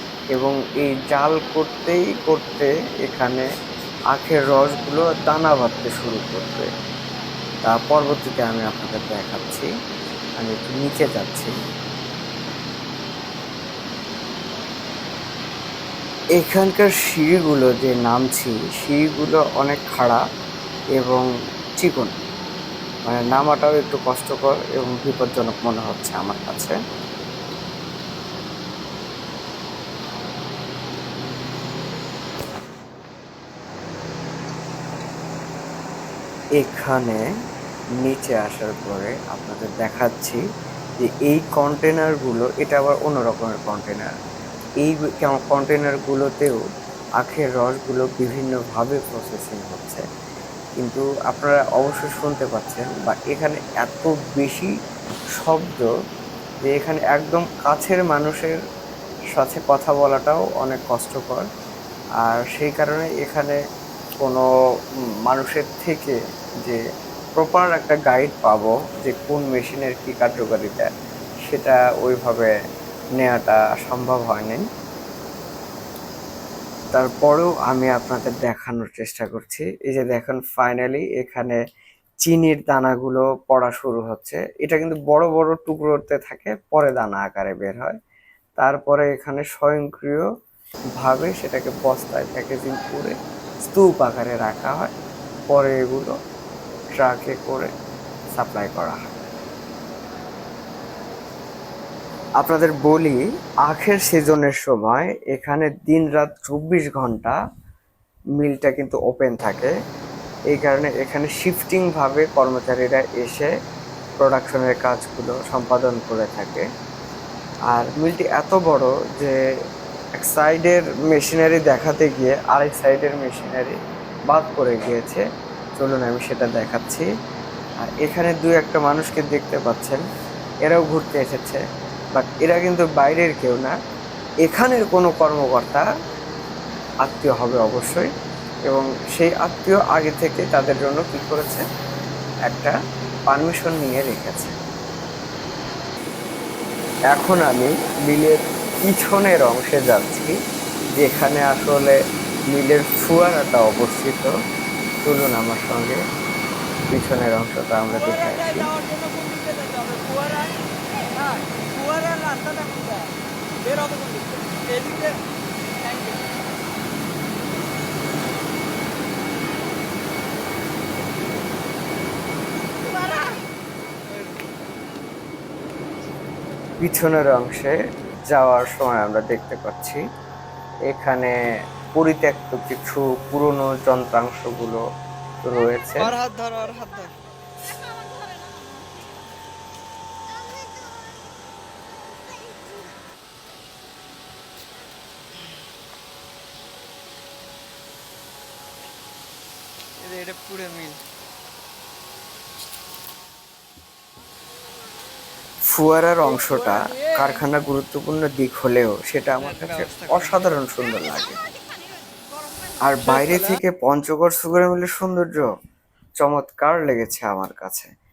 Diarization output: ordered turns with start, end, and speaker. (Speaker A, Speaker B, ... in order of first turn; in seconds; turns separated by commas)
Speaker A: 0.3-3.5, Speaker A: 4.1-6.7, Speaker A: 7.7-9.7, Speaker A: 10.4-11.5, Speaker A: 16.4-20.2, Speaker A: 21.0-21.2, Speaker A: 21.8-22.1, Speaker A: 23.1-26.8, Speaker A: 36.6-37.2, Speaker A: 38.0-40.4, Speaker A: 41.0-44.1, Speaker A: 44.8-46.6, Speaker A: 47.2-50.0, Speaker A: 50.8-54.7, Speaker A: 55.4-55.9, Speaker A: 56.6-58.6, Speaker A: 59.3-61.5, Speaker A: 62.2-63.6, Speaker A: 65.3-66.8, Speaker A: 67.3-70.9, Speaker A: 71.5-72.5, Speaker A: 73.2-74.6, Speaker A: 76.9-81.6, Speaker A: 82.2-88.0, Speaker A: 88.6-90.3, Speaker A: 91.0-94.9, Speaker A: 95.5-96.1, Speaker A: 97.0-97.7, Speaker A: 98.3-99.1, Speaker A: 102.4-107.4, Speaker A: 108.4-109.7, Speaker A: 110.5-113.5, Speaker A: 114.2-116.6, Speaker A: 117.7-119.4, Speaker A: 120.2-123.8, Speaker A: 124.3-125.2, Speaker A: 125.8-127.1, Speaker A: 127.8-130.0, Speaker A: 130.7-131.6, Speaker A: 132.1-133.7, Speaker A: 134.4-135.8, Speaker A: 137.0-138.1, Speaker A: 138.7-141.6, Speaker A: 142.5-142.7, Speaker A: 143.3-144.5, Speaker A: 147.1-150.3, Speaker A: 151.0-151.9, Speaker A: 152.5-154.3, Speaker A: 155.0-156.0, Speaker A: 156.9-158.7, Speaker B: 158.9-160.5, Speaker B: 161.3-162.9, Speaker B: 163.7-165.1, Speaker A: 176.8-177.8, Speaker A: 178.3-180.0, Speaker A: 180.9-181.3, Speaker A: 181.9-184.8, Speaker A: 185.4-186.1, Speaker B: 186.0-187.1, Speaker B: 200.0-201.0, Speaker A: 205.7-211.4, Speaker B: 206.2-207.3, Speaker B: 209.4-210.4, Speaker A: 212.8-215.5, Speaker B: 213.0-213.6, Speaker A: 216.2-217.9